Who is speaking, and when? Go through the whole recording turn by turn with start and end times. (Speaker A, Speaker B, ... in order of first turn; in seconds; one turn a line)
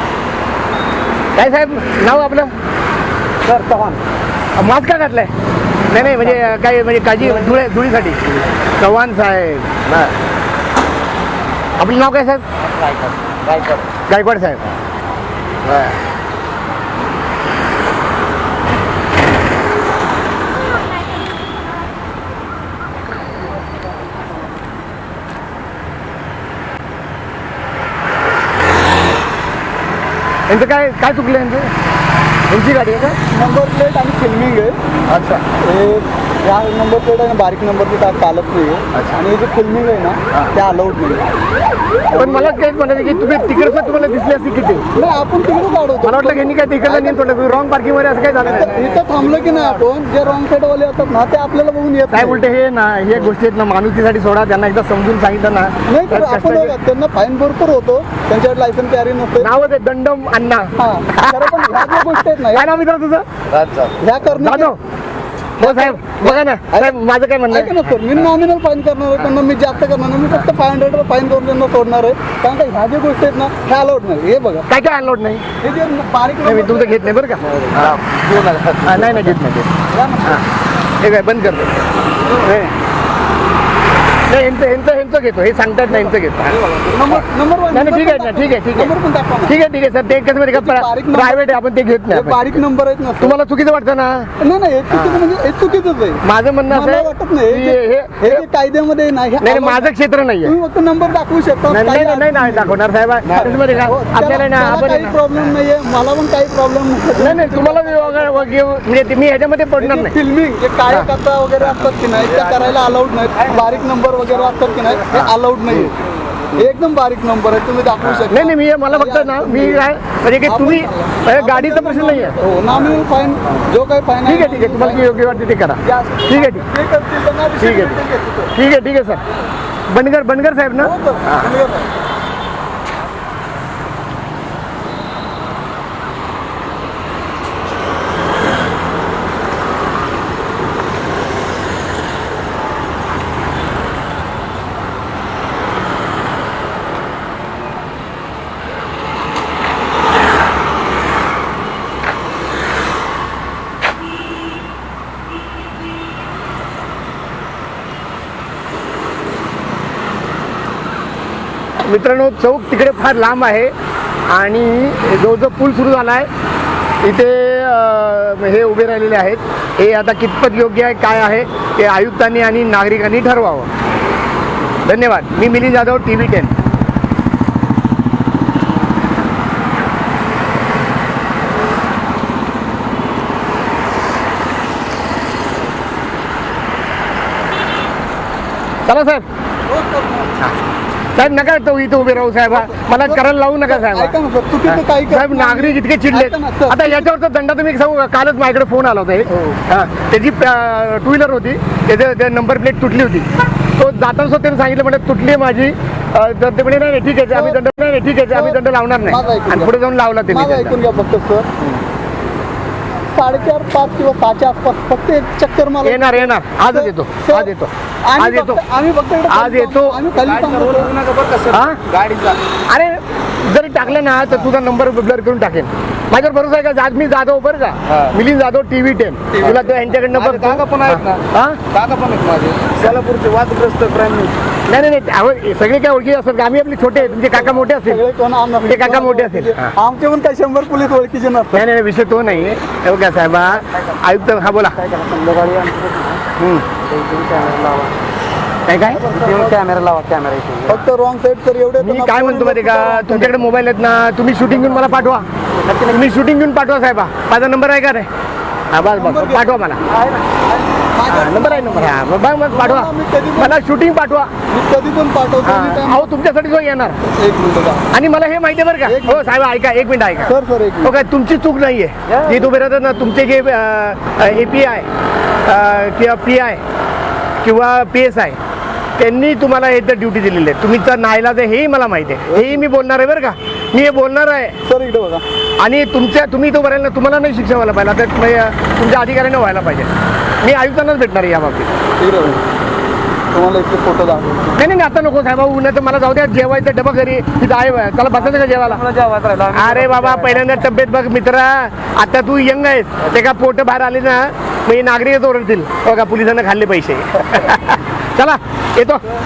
Speaker A: 1.4-2.6
Speaker B: 3.5-4.0
Speaker A: 4.5-5.3
Speaker A: 5.9-8.2
Speaker B: 6.0-6.4
Speaker A: 8.8-10.1
Speaker A: 11.8-12.4
Speaker B: 12.6-13.9
Speaker A: 14.1-14.6
Speaker A: 15.6-16.0
Speaker A: 30.5-31.7
Speaker A: 32.5-33.2
Speaker C: 33.3-34.8
Speaker A: 35.1-35.4
Speaker C: 35.6-41.3
Speaker A: 38.9-39.2
Speaker C: 42.1-42.5
Speaker A: 42.1-44.9
Speaker C: 44.9-47.5
Speaker A: 46.0-48.9
Speaker C: 48.4-52.5
Speaker B: 48.5-49.8
Speaker A: 52.1-56.7
Speaker C: 55.9-59.5
Speaker A: 59.4-63.3
Speaker C: 60.8-62.8
Speaker B: 63.5-64.0
Speaker C: 64.0-64.7
Speaker A: 64.4-64.8
Speaker A: 65.6-68.0
Speaker C: 65.6-67.0
Speaker C: 67.5-74.7
Speaker A: 74.7-75.4
Speaker C: 75.6-77.2
Speaker A: 76.5-78.0
Speaker B: 77.4-79.3
Speaker A: 78.8-79.7
Speaker C: 79.9-80.4
Speaker A: 81.0-81.8
Speaker A: 84.3-88.9
Speaker B: 86.0-87.0
Speaker C: 86.9-89.6
Speaker A: 89.5-92.6
Speaker C: 90.5-91.6
Speaker C: 92.1-93.4
Speaker A: 93.2-94.3
Speaker C: 94.4-99.9
Speaker A: 94.9-95.3
Speaker A: 96.2-98.5
Speaker A: 99.4-100.6
Speaker C: 100.4-102.8
Speaker A: 101.7-105.2
Speaker C: 103.3-108.6
Speaker A: 107.2-110.2
Speaker C: 109.8-116.0
Speaker A: 115.1-115.8
Speaker C: 116.5-119.9
Speaker A: 118.0-122.4
Speaker C: 120.4-128.5
Speaker A: 124.2-126.7
Speaker A: 127.6-128.0
Speaker A: 128.6-129.2
Speaker A: 129.9-131.5
Speaker C: 130.8-131.9
Speaker A: 161.9-163.7
Speaker A: 164.3-166.3
Speaker A: 167.0-173.7
Speaker A: 174.8-176.6
Speaker A: 188.9-189.2
Speaker C: 189.7-190.5
Speaker A: 191.1-210.8
Speaker C: 192.4-197.1
Speaker C: 199.3-199.6
Speaker C: 207.3-207.6
Speaker C: 208.3-209.8
Speaker C: 210.3-211.5
Speaker C: 213.1-217.5
Speaker A: 215.8-218.6
Speaker C: 218.1-220.9
Speaker A: 219.3-220.0
Speaker B: 220.2-222.4
Speaker A: 221.5-221.8
Speaker A: 222.7-231.6
Speaker B: 227.9-228.2
Speaker B: 230.1-234.3
Speaker A: 234.7-238.0
Speaker C: 237.3-241.7
Speaker A: 238.6-239.7
Speaker A: 241.5-244.8
Speaker B: 243.8-246.2
Speaker A: 246.4-246.7
Speaker B: 246.8-248.0
Speaker A: 248.7-249.1
Speaker C: 248.9-249.6
Speaker B: 249.1-250.8
Speaker C: 250.7-253.4
Speaker A: 251.8-255.3
Speaker B: 255.6-256.1
Speaker A: 255.9-258.1
Speaker A: 258.7-259.8
Speaker C: 258.9-259.7
Speaker B: 259.9-260.3
Speaker C: 260.5-263.6
Speaker A: 261.1-264.3
Speaker C: 264.5-266.1
Speaker A: 265.4-267.0
Speaker C: 267.0-267.9
Speaker A: 267.9-274.9
Speaker C: 268.9-269.4
Speaker C: 270.2-271.0
Speaker B: 272.1-272.5
Speaker A: 275.4-276.6
Speaker A: 277.4-278.4
Speaker A: 279.0-284.6
Speaker C: 282.3-282.6
Speaker C: 284.6-285.2
Speaker A: 285.6-291.7
Speaker C: 292.0-292.4
Speaker C: 293.3-294.6
Speaker A: 294.6-298.8
Speaker B: 298.2-300.6
Speaker A: 299.5-309.0